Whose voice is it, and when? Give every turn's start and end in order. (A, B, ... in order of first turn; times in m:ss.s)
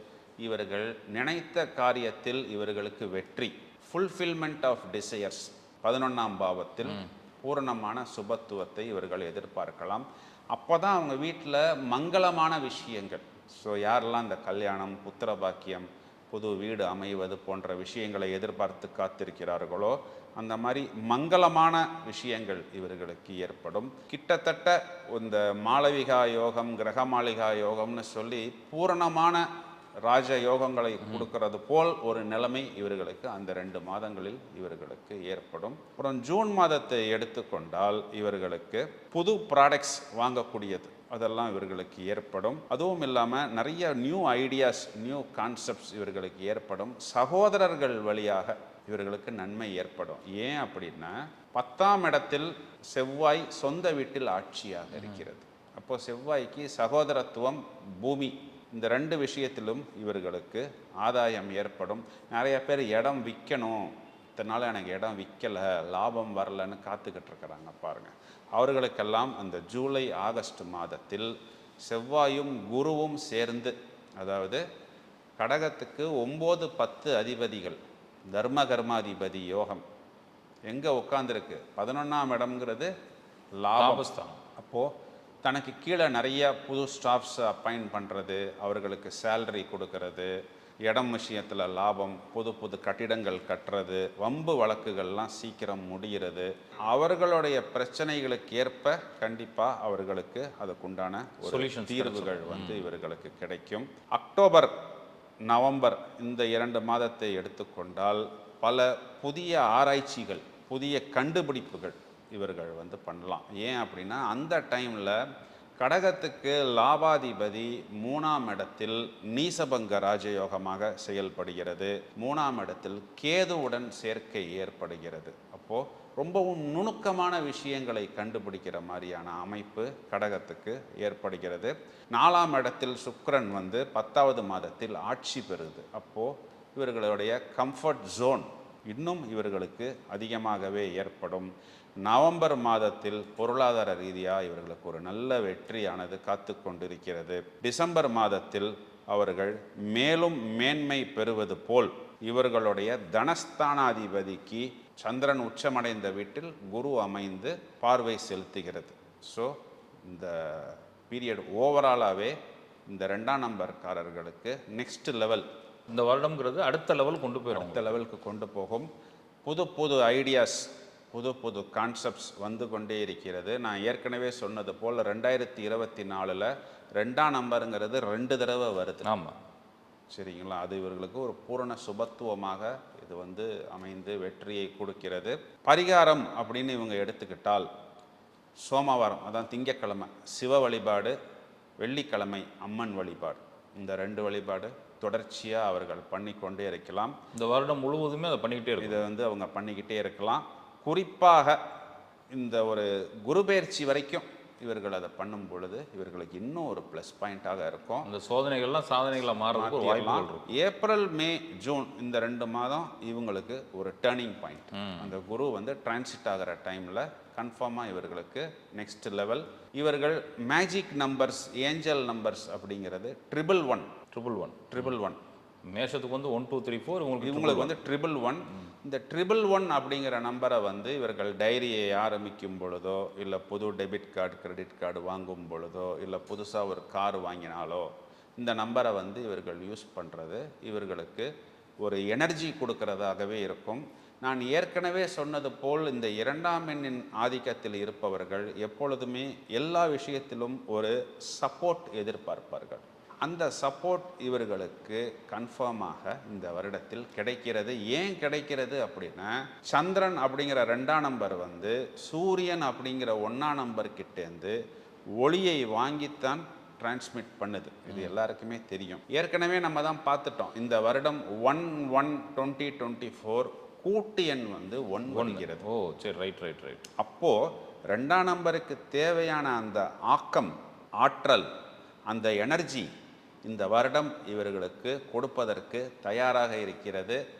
0:00.4-0:29.4 A
0:30.0-1:11.3 A
1:11.8-1:14.6 A
1:15.4-1:19.8 A
1:20.7-1:22.9 A
1:23.6-1:24.9 A
1:23.8-1:24.4 B
1:25.4-1:30.3 A
1:30.8-1:44.7 A
1:41.4-1:42.9 B
1:45.5-1:55.2 A
1:55.8-2:42.3 A
2:42.9-2:45.4 A
2:45.9-2:47.9 B
2:47.5-2:48.9 A
2:49.4-2:59.1 A
2:59.0-2:59.3 B
3:00.1-3:07.7 A
3:08.6-3:11.1 A
3:11.8-3:17.1 A
3:17.3-3:19.0 B
3:18.8-3:21.6 A
3:22.3-3:28.1 A
3:28.0-3:30.5 B
3:29.5-3:43.9 A
3:34.7-3:35.1 B
3:44.1-3:44.9 B
3:44.7-3:45.2 A
3:45.7-3:47.8 B
3:47.2-4:01.3 A
4:01.8-4:24.6 A
4:25.2-4:35.6 A
4:35.1-4:36.8 B
4:37.0-4:41.4 A
4:42.1-4:42.9 A
4:43.4-4:47.2 A